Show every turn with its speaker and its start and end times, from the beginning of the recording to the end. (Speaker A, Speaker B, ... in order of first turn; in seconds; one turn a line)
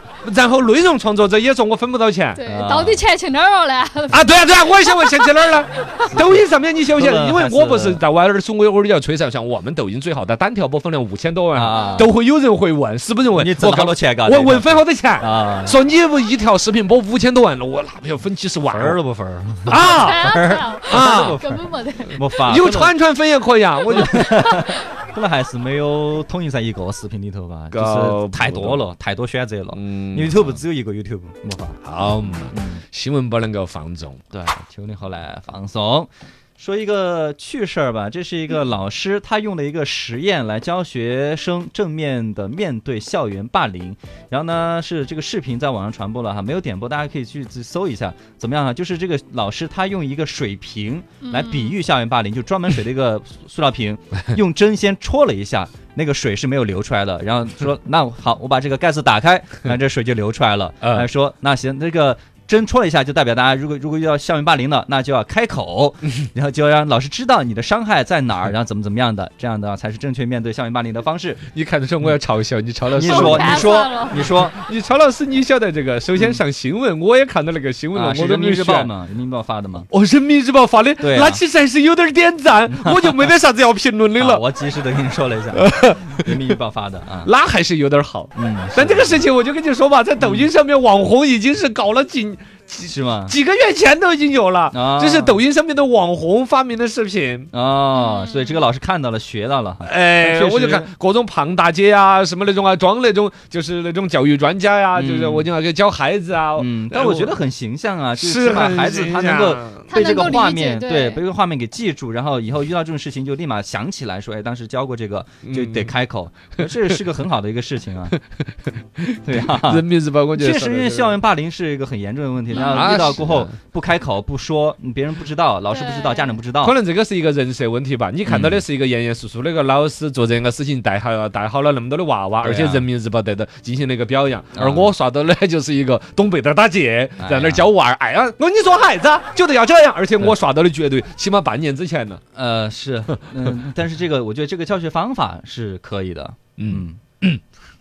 Speaker A: 0.2-2.4
Speaker B: 2.4-6.1
Speaker C: 2.5-3.0
Speaker A: 4.1-19.0
Speaker C: 6.1-8.0
Speaker C: 11.5-12.1
Speaker C: 13.3-15.8
Speaker C: 18.7-22.9
Speaker A: 19.7-21.4
Speaker B: 19.7-22.3
Speaker A: 22.4-24.3
Speaker C: 23.9-31.8
Speaker A: 27.7-28.9
Speaker A: 29.7-30.6
Speaker A: 31.8-34.2
Speaker C: 32.4-32.8
Speaker C: 34.3-71.4
Speaker B: 51.2-51.8
Speaker A: 71.5-78.9
Speaker C: 72.9-74.6
Speaker B: 73.0-74.3
Speaker C: 76.2-76.4
Speaker C: 77.9-79.9
Speaker A: 79.9-84.4
Speaker C: 81.0-81.4
Speaker C: 82.7-83.3
Speaker C: 84.2-87.3
Speaker A: 85.5-86.5
Speaker A: 87.2-97.5
Speaker C: 88.3-89.2
Speaker C: 90.2-90.5
Speaker C: 92.8-93.4
Speaker C: 94.7-95.4
Speaker C: 97.5-100.9
Speaker B: 97.9-98.6
Speaker A: 99.8-107.4
Speaker C: 105.0-105.5
Speaker C: 106.6-118.2
Speaker A: 108.2-110.1
Speaker B: 109.9-111.2
Speaker A: 115.4-115.9
Speaker A: 119.0-121.2
Speaker C: 119.2-126.8
Speaker A: 122.5-123.5
Speaker B: 122.6-122.9
Speaker B: 125.7-126.4
Speaker A: 126.6-142.2
Speaker C: 128.3-128.6
Speaker C: 132.4-132.9
Speaker C: 134.6-134.9
Speaker C: 137.2-137.7
Speaker C: 142.3-147.0
Speaker A: 146.6-147.4